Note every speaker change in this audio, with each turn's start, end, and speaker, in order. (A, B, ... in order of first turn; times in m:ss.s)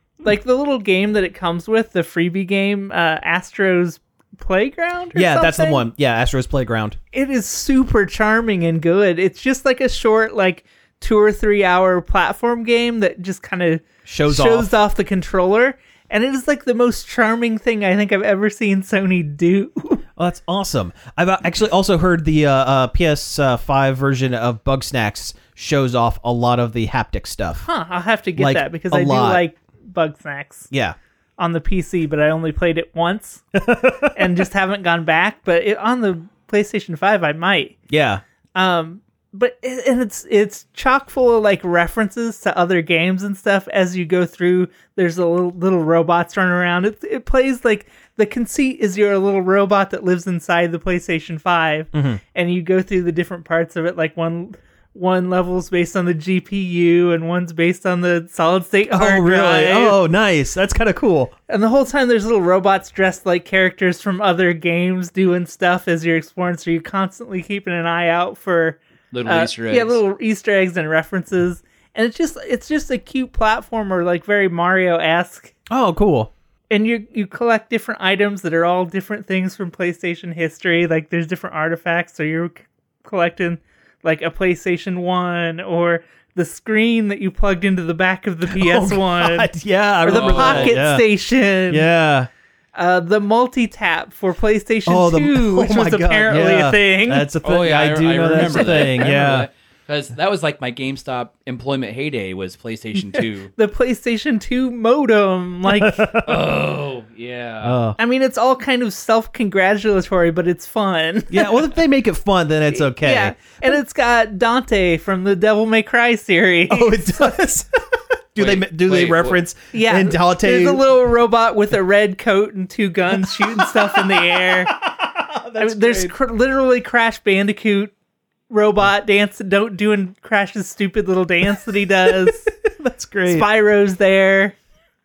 0:00.2-0:05.8 A
0:05.1-0:07.0 B
0:07.1-0:20.0 A
0:14.0-0:14.7 B
0:20.2-0:27.7 B
0:27.6-0:30.7 A
0:28.4-0:29.4 B
0:30.7-0:31.0 B
0:31.4-0:33.4 A
0:33.5-0:34.2 B
0:34.1-0:37.8 A
0:37.9-0:38.2 B
0:38.6-1:00.0 A
0:51.9-0:52.2 B
0:58.9-1:01.3 B
1:01.5-1:15.5 A
1:09.1-1:10.0 C
1:15.7-1:16.3 B
1:16.7-1:29.5 A
1:28.5-1:31.1 B
1:30.0-1:31.9 A
1:30.1-1:30.8 C
1:31.7-1:32.3 B
1:32.7-1:37.3 A
1:34.8-1:39.5 B
1:37.4-1:43.5 C
1:38.4-1:39.1 A
1:43.1-1:46.1 A
1:45.7-1:46.5 B
1:46.2-1:47.8 C
1:47.6-1:48.0 B
1:48.0-1:51.7 A
1:51.3-1:53.8 B
1:52.7-1:57.4 A
1:56.7-1:57.7 B
1:58.3-2:00.8 B
1:58.4-1:59.4 C
1:59.7-2:04.7 A
2:03.4-2:06.1 B
2:05.6-2:07.9 A
2:08.5-2:12.5 A
2:12.0-2:13.5 B
2:13.2-2:14.6 A